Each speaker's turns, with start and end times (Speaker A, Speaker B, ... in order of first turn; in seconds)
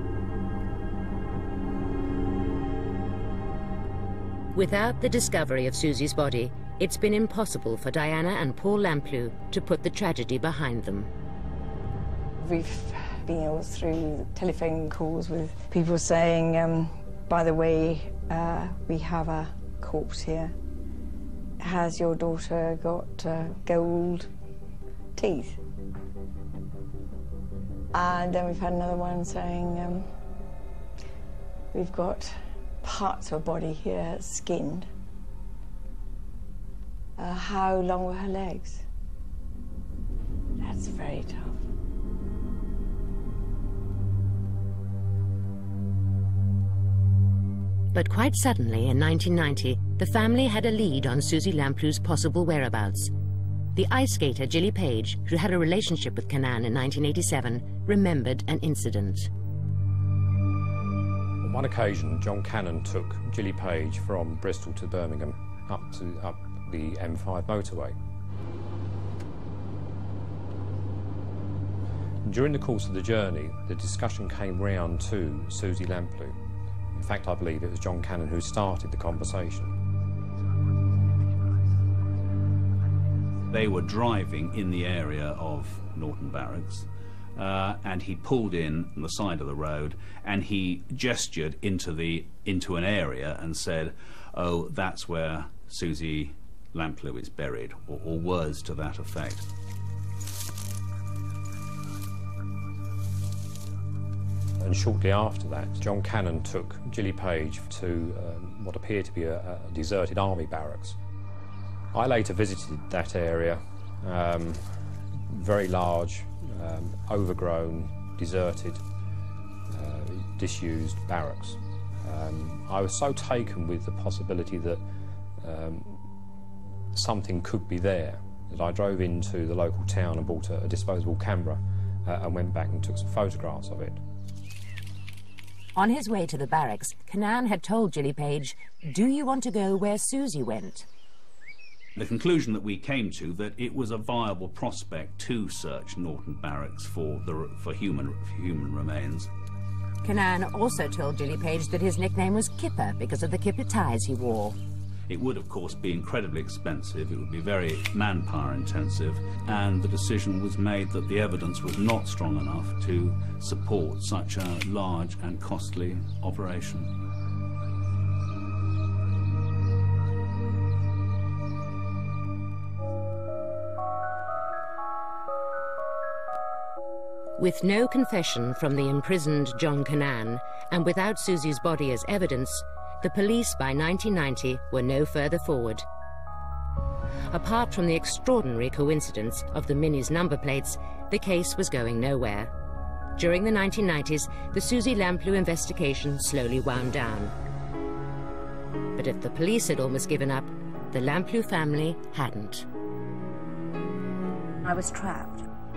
Speaker A: 4.5-11.1, 47.9-53.1, 53.8-59.3, 135.8-140.9, 150.0-154.6, 177.4-185.8, 187.3-192.5, 193.2-197.3, 199.0-202.7
Speaker B: 12.4-20.6, 21.6-24.3, 25.2-25.6, 27.9-30.1, 31.7-34.9, 37.2-38.8, 40.6-41.6, 204.6-205.4
Speaker C: 61.4-68.0, 72.2-76.4, 76.9-79.8, 104.6-111.0, 111.9-114.6, 115.3-118.8, 119.7-124.8, 125.4-126.0, 126.9-134.0
Speaker D: 83.5-99.5, 142.0-149.3, 155.1-166.9